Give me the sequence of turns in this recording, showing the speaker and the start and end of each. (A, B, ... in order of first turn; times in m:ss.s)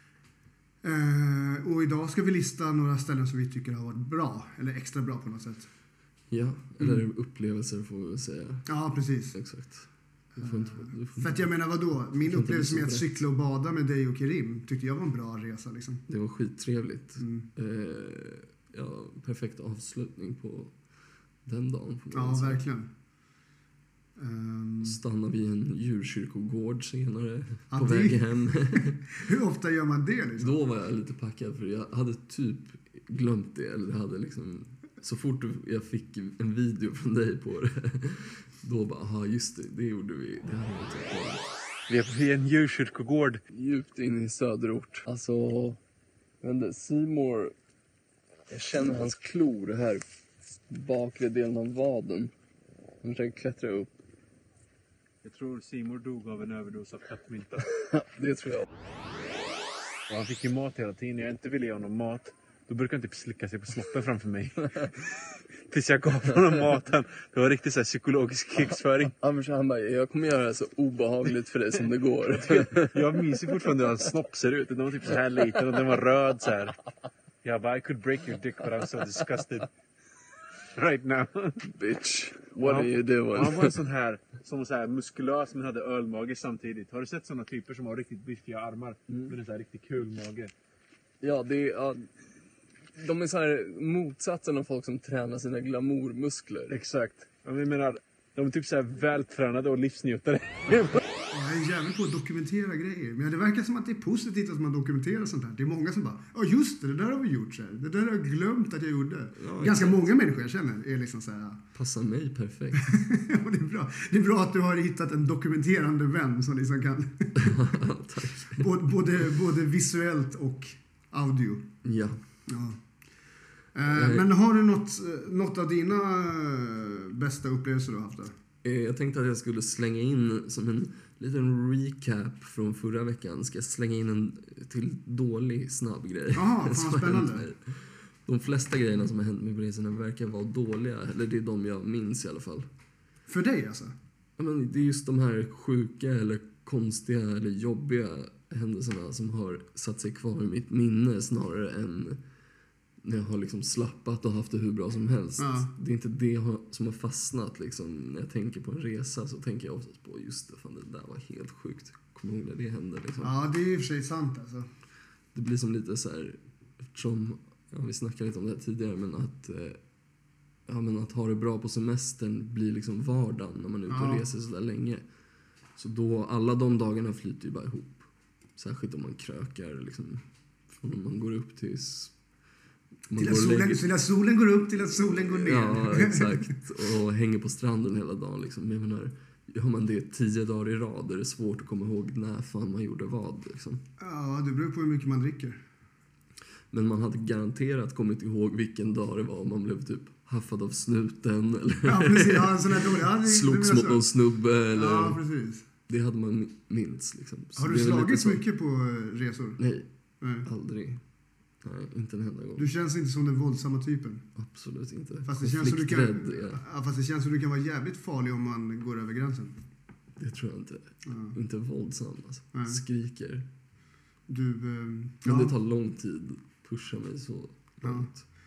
0:00.8-0:05.7 A
0:06.3-0:08.7 B
0:06.8-0:07.0 A
0:08.7-0:09.4 A
0:09.3-0:11.5 B
0:10.4-0:16.0 A
0:12.2-0:13.1 B
0:16.1-0:20.7 B
0:17.2-0:17.5 A
0:21.4-0:22.6 B
0:22.1-0:22.9 A
0:24.2-0:25.0 A
0:24.8-0:29.1 B
0:27.7-0:30.6 A
0:30.4-0:41.4 B
0:41.9-0:43.4 C
0:43.5-0:45.8 B
0:46.4-0:47.5 B
0:48.5-0:52.3 B
0:53.0-0:53.9 B
0:55.2-0:57.7 C
0:57.9-0:58.7 B
1:00.1-1:09.2 C
1:09.2-1:13.1 B
1:12.8-1:16.8 C
1:17.4-1:19.7 C
1:20.8-1:21.6 C
1:21.6-1:23.8 B
1:22.6-1:30.5 C
1:31.2-1:32.1 B
1:33.0-1:36.8 B
1:36.7-1:41.0 C
1:41.3-1:51.6 A
1:49.4-1:50.1 B
1:51.8-1:52.9 B
1:52.8-1:57.7 A
1:57.4-1:58.7 B
1:58.4-2:01.7 A
2:01.8-2:02.2 B
2:02.5-2:02.8 A
2:03.8-2:08.3 A
2:03.9-2:04.3 B
2:08.6-2:22.7 B
2:16.3-2:17.5 A
2:23.3-2:23.9 A
2:24.4-2:32.2 B
2:33.0-2:43.3 B
2:35.4-2:35.7 A
2:43.2-2:44.7 A
2:45.3-2:49.8 B
2:50.7-2:55.0 B
2:53.9-2:54.2 A
2:55.8-3:02.1 B
3:03.1-3:03.9 B
3:03.2-3:06.6 A
3:05.0-3:13.8 B
3:14.0-3:15.6 A
3:16.7-3:25.2 B
3:21.8-3:24.1 A
3:24.7-3:25.7 A
3:25.9-3:28.4 B
3:27.6-3:29.6 A
3:29.6-3:29.9 B
3:30.2-3:30.5 A
3:30.4-3:31.0 B
3:31.6-3:32.7 B
3:32.6-3:34.2 A
3:34.4-3:36.6 B
3:35.3-3:39.6 A
3:40.2-3:43.5 B
3:41.1-3:41.4 A
3:42.5-3:42.8 A
3:44.3-3:45.6 A
3:45.2-3:48.2 B
3:47.8-3:48.1 A